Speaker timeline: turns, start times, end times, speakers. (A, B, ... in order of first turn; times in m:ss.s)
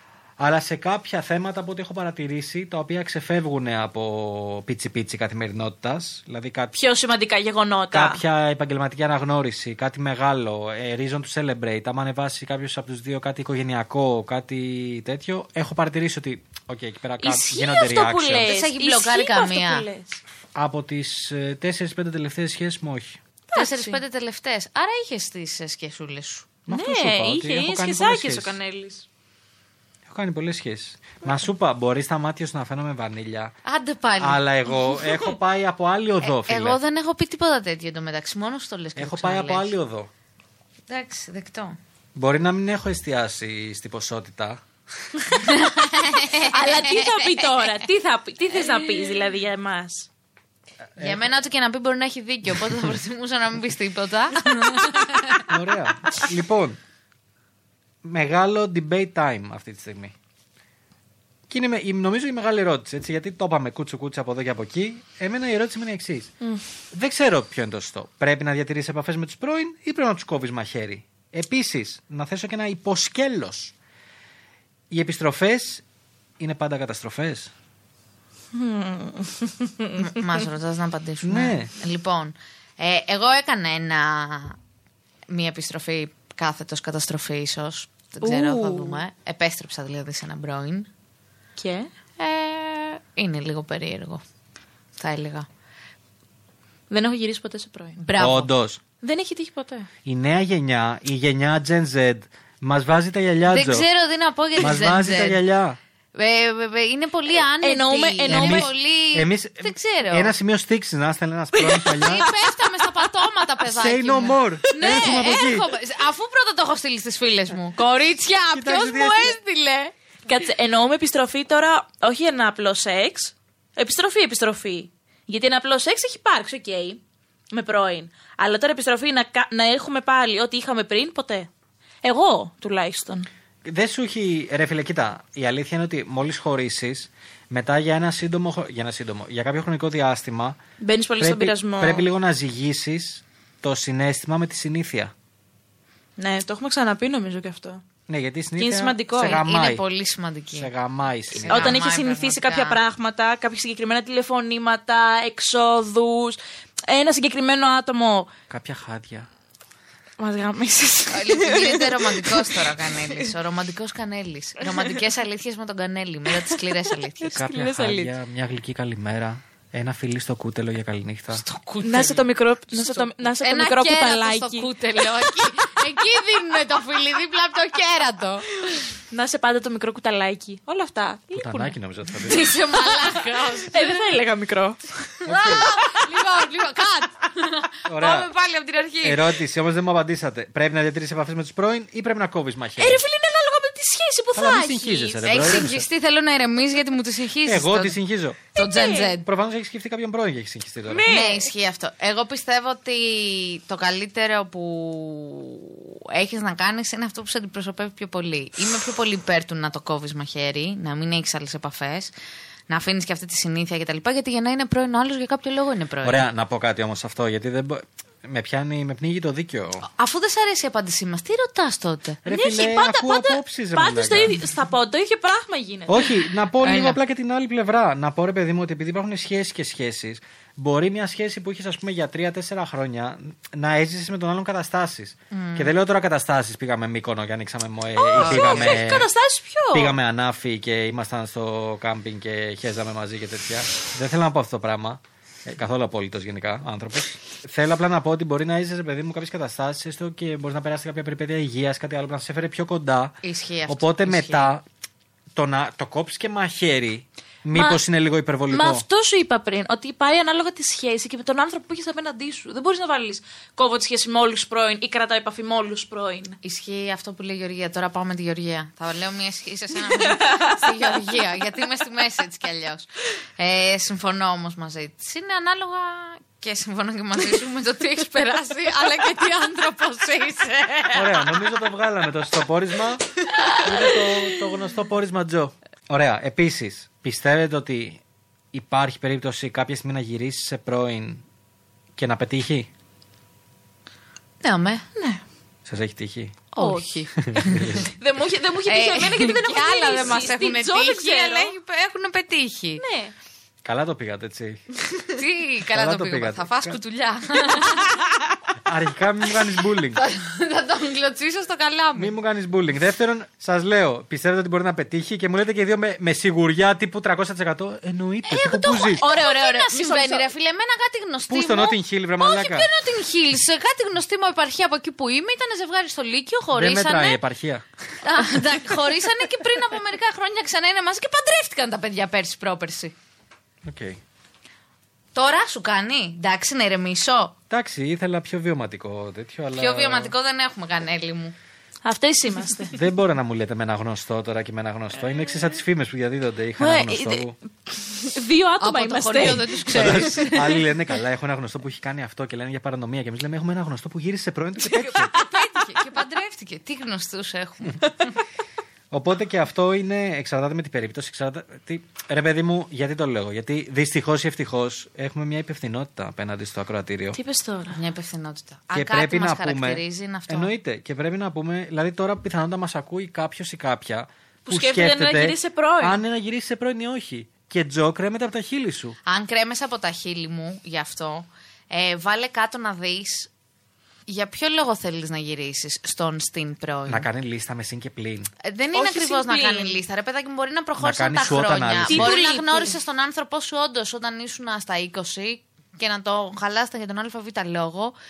0:00.4-0:06.8 A
0:06.7-0:08.2 B
0:07.9-0:18.5 A
0:17.2-0:20.2 B
0:18.5-0:19.9 C
0:20.5-0:23.2 A
0:23.5-0:24.0 B
0:23.5-0:26.5 C
0:26.7-0:28.6 A
0:26.7-0:29.1 B
0:30.1-0:33.6 A
0:33.6-0:34.4 C
0:34.2-0:36.8 A
0:36.2-0:39.7 C
0:39.0-0:40.1 A
0:40.9-0:41.8 C
0:42.2-0:44.6 A
0:45.4-0:47.5 C
0:46.4-0:50.1 B
0:51.0-0:51.2 A
0:51.0-0:55.5 C
0:55.5-0:56.8 A
0:58.0-1:00.2 A
1:01.5-1:06.3 A
1:06.9-1:13.7 A
1:14.9-1:15.8 A
1:16.4-1:17.5 A
1:18.5-1:20.2 B
1:20.0-1:24.6 C
1:21.2-1:21.7 A
1:25.3-1:30.9 C
1:28.2-1:29.0 B
1:31.6-1:31.9 B
1:32.2-1:34.2 C
1:35.0-1:35.5 C
1:36.9-1:38.0 B
1:38.0-1:38.5 C
1:38.2-1:38.8 A
1:39.0-1:39.9 B
1:40.0-1:43.9 A
1:43.5-1:45.4 C
1:44.6-1:45.8 A
1:46.2-1:50.3 C
1:47.6-1:48.7 B
1:48.3-1:52.3 A
1:51.5-1:53.3 B
1:51.9-1:59.9 C
1:53.6-1:55.7 A
1:54.8-1:55.3 B
1:58.5-1:59.4 A
2:00.3-2:07.0 B
2:07.5-2:11.5 B
2:12.0-2:13.3 B
2:13.6-2:20.6 A
2:20.8-2:22.1 B
2:21.2-2:25.1 A
2:26.2-2:27.8 B
2:28.1-2:29.8 A
2:28.6-2:29.4 B
2:29.2-2:30.7 C
2:30.6-2:31.8 A
2:31.4-2:32.8 C
2:31.4-2:38.3 B
2:38.5-2:39.3 A
2:40.2-2:43.2 B
2:41.1-2:47.4 C
2:47.2-2:48.1 B
2:47.4-2:51.4 A
2:51.3-2:58.5 C
2:51.8-2:55.3 B
2:58.6-3:01.7 B
3:01.3-3:02.5 A
3:02.2-3:04.0 C
3:02.7-3:06.0 B
3:05.2-3:05.7 A
3:05.2-3:09.4 C
3:07.9-3:08.3 A
3:09.0-3:13.0 A
3:12.8-3:15.5 B
3:14.4-3:15.9 A
3:15.2-3:18.0 C
3:17.4-3:18.4 A
3:18.6-3:19.3 C
3:18.6-3:19.1 B
3:19.2-3:21.1 A
3:20.9-3:21.5 B
3:21.1-3:32.1 C
3:32.7-3:36.2 C
3:36.0-3:39.9 A
3:39.8-3:42.2 C
3:42.2-3:44.4 A
3:42.3-3:46.1 B
3:45.9-3:59.1 A
3:46.6-3:47.0 C
3:55.3-3:55.7 C
3:58.0-4:00.0 B
3:58.2-3:58.8 C
3:59.7-4:14.6 A
4:13.2-4:14.5 C
4:15.4-4:18.8 A
4:17.5-4:17.8 B
4:18.5-4:26.4 B
4:26.4-4:41.4 C
4:29.8-4:30.9 B
4:40.9-4:48.0 A
4:48.5-4:51.2 A
4:52.0-4:52.7 A
4:54.4-4:54.8 C
4:55.0-4:55.2 B
4:55.7-4:56.5 A
4:56.6-4:57.9 C
4:56.6-5:01.5 B
4:57.2-4:57.9 A
4:58.7-5:02.8 C
5:02.8-5:03.1 B
5:03.6-5:04.6 A
5:05.1-5:08.0 C
5:05.7-5:06.8 A
5:08.6-5:10.0 A
5:09.9-5:12.1 C
5:12.0-5:19.0 A
5:18.3-5:27.2 C
5:19.0-5:20.3 B
5:21.3-5:22.7 A
5:26.5-5:27.6 A
5:28.0-5:33.0 C
5:33.6-5:34.0 A
5:35.2-5:37.4 C
5:37.5-5:40.1 A
5:39.6-5:41.4 C
5:41.8-5:42.7 B
5:42.7-5:47.4 A
5:46.6-5:50.5 B
5:48.6-5:50.6 C
5:49.7-5:55.1 A
5:54.8-5:58.1 C
5:58.9-6:07.2 A
6:07.2-6:07.8 B
6:07.7-6:10.5 C
6:08.7-6:19.0 A
6:14.5-6:16.0 B
6:19.1-6:23.3 C
6:24.1-6:27.1 C
6:26.9-6:28.3 A
6:28.4-6:38.0 C
6:28.7-6:29.8 B
6:30.8-6:32.2 A
6:31.9-6:32.8 B